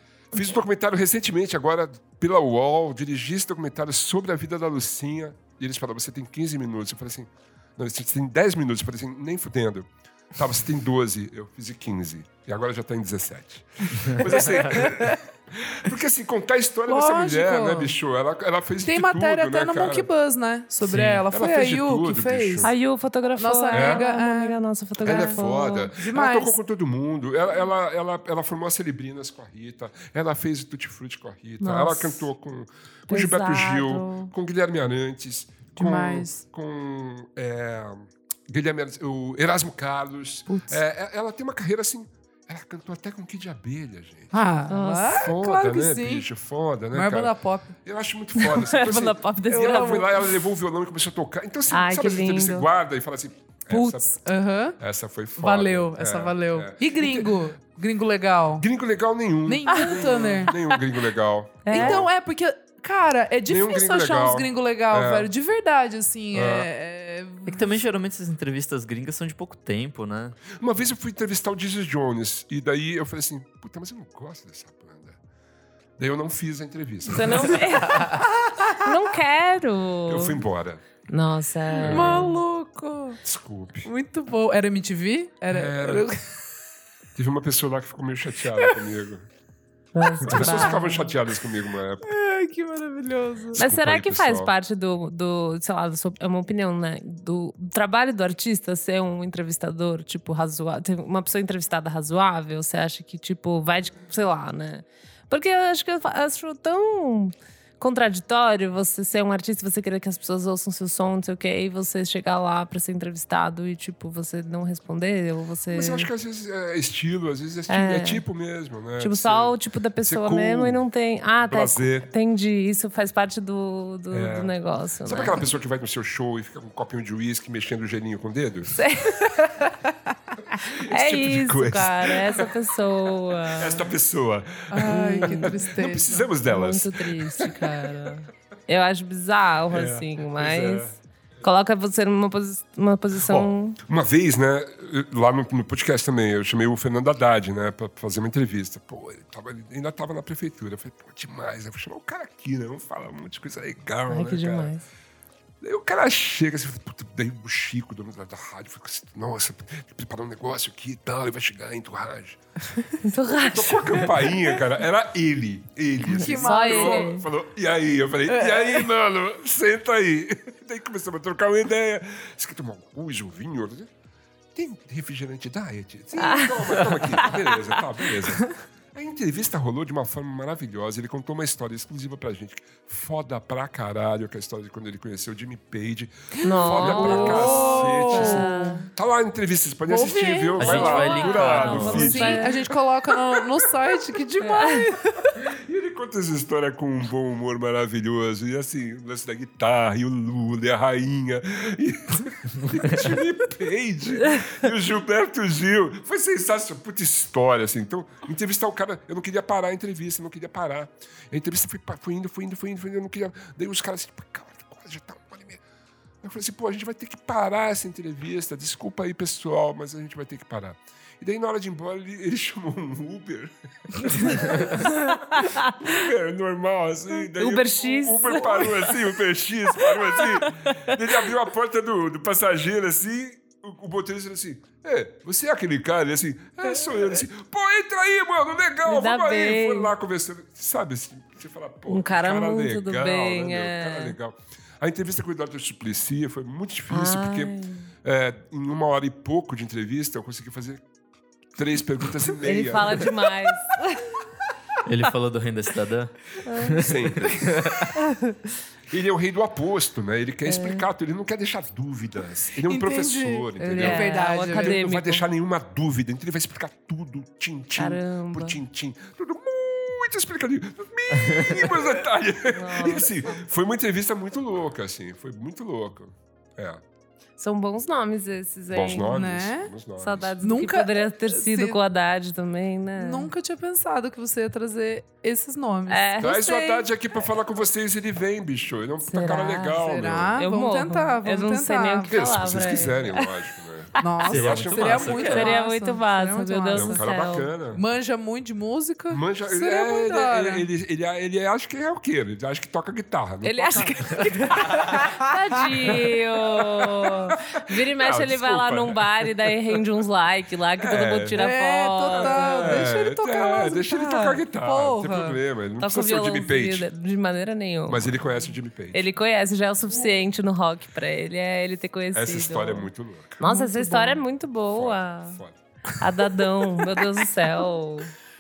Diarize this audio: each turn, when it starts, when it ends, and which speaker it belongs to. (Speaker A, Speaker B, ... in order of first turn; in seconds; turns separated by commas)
Speaker A: 0.3-20.1, Speaker B: 14.7-15.2, Speaker B: 16.9-17.9, Speaker B: 18.8-22.7, Speaker C: 20.9-21.2, Speaker A: 21.3-22.7, Speaker D: 22.6-25.9, Speaker B: 23.4-25.4, Speaker A: 23.7-24.0, Speaker A: 25.0-44.3, Speaker B: 25.9-26.6, Speaker D: 31.6-32.2, Speaker D: 33.1-34.3, Speaker B: 35.8-36.4, Speaker B: 44.3-46.3, Speaker D: 44.7-45.2, Speaker A: 45.2-47.3, Speaker B: 46.9-47.7, Speaker A: 47.8-54.1, Speaker D: 48.4-50.3, Speaker B: 49.5-50.0, Speaker D: 51.7-52.6, Speaker B: 53.7-54.8, Speaker A: 54.8-57.4, Speaker B: 55.4-58.6, Speaker A: 58.6-62.1, Speaker B: 59.4-60.6, Speaker D: 59.7-60.0, Speaker D: 61.6-62.0, Speaker B: 61.7-67.8, Speaker A: 63.5-65.3, Speaker A: 66.3-66.7, Speaker C: 67.5-70.4, Speaker A: 70.5-75.2, Speaker A: 76.0-77.8, Speaker D: 77.1-78.2, Speaker B: 78.0-78.8, Speaker D: 78.8-80.4, Speaker A: 80.1-80.8, Speaker D: 81.1-82.4, Speaker A: 81.7-82.4, Speaker B: 81.8-83.2, Speaker A: 83.2-83.9, Speaker B: 83.8-86.2, Speaker A: 85.5-86.1, Speaker A: 87.1-89.3, Speaker D: 89.9-91.1, Speaker A: 90.2-92.1, Speaker B: 90.3-90.6, Speaker B: 92.0-93.6, Speaker A: 93.5-94.5, Speaker D: 93.6-116.1, Speaker A: 115.7-120.8, Speaker D: 117.7-118.2, Speaker D: 119.0-125.4, Speaker A: 121.4-122.1, Speaker A: 124.1-124.5, Speaker A: 125.0-128.8, Speaker D: 128.7-129.7, Speaker A: 130.5-132.5, Speaker D: 130.7-133.9, Speaker A: 133.5-138.2, Speaker B: 134.7-136.3, Speaker D: 134.8-135.6, Speaker D: 136.4-140.9, Speaker A: 139.7-141.0, Speaker D: 141.4-143.8, Speaker A: 143.2-154.7, Speaker D: 154.1-154.8, Speaker A: 155.6-162.4, Speaker D: 163.0-164.1, Speaker A: 163.3-173.9, Speaker B: 166.0-167.2, Speaker D: 166.2-167.2, Speaker B: 168.3-168.9, Speaker A: 174.5-192.7, Speaker D: 176.2-177.7, Speaker B: 186.4-188.8, Speaker D: 186.4-188.9, Speaker B: 189.9-195.3, Speaker C: 190.6-192.3, Speaker D: 190.6-192.6, Speaker D: 194.5-194.8, Speaker A: 195.4-215.6, Speaker A: 216.2-250.8, Speaker D: 224.2-225.9, Speaker D: 227.3-229.0, Speaker D: 229.8-230.9, Speaker D: 238.8-239.9, Speaker D: 241.9-244.1, Speaker D: 246.9-247.8, Speaker A: 251.5-253.1, Speaker D: 252.4-254.1, Speaker C: 254.8-257.9, Speaker D: 256.4-256.8, Speaker A: 256.7-257.7, Speaker A: 258.9-276.8, Speaker D: 260.4-260.8, Speaker B: 262.6-264.8, Speaker D: 263.8-265.2, Speaker D: 267.8-268.6, Speaker D: 272.5-273.4, Speaker D: 277.4-279.2, Speaker A: 278.7-280.4, Speaker B: 279.1-279.7, Speaker D: 280.0-283.3, Speaker B: 280.4-281.8, Speaker B: 282.9-286.2, Speaker D: 285.9-286.8, Speaker A: 286.2-290.4, Speaker D: 289.0-293.3, Speaker B: 289.8-292.1, Speaker A: 292.1-295.5, Speaker B: 294.0-297.0, Speaker C: 294.2-295.5, Speaker D: 295.1-297.5, Speaker A: 296.7-297.8, Speaker B: 297.7-300.6, Speaker A: 299.1-305.0, Speaker B: 303.4-305.6, Speaker D: 305.0-312.8, Speaker A: 305.9-309.5, Speaker A: 310.8-311.4, Speaker B: 311.3-315.4, Speaker A: 312.1-316.9, Speaker D: 315.8-318.4, Speaker A: 317.9-319.0, Speaker D: 318.9-325.4, Speaker A: 322.1-323.4, Speaker B: 323.4-324.2, Speaker A: 324.7-325.6, Speaker D: 326.0-328.1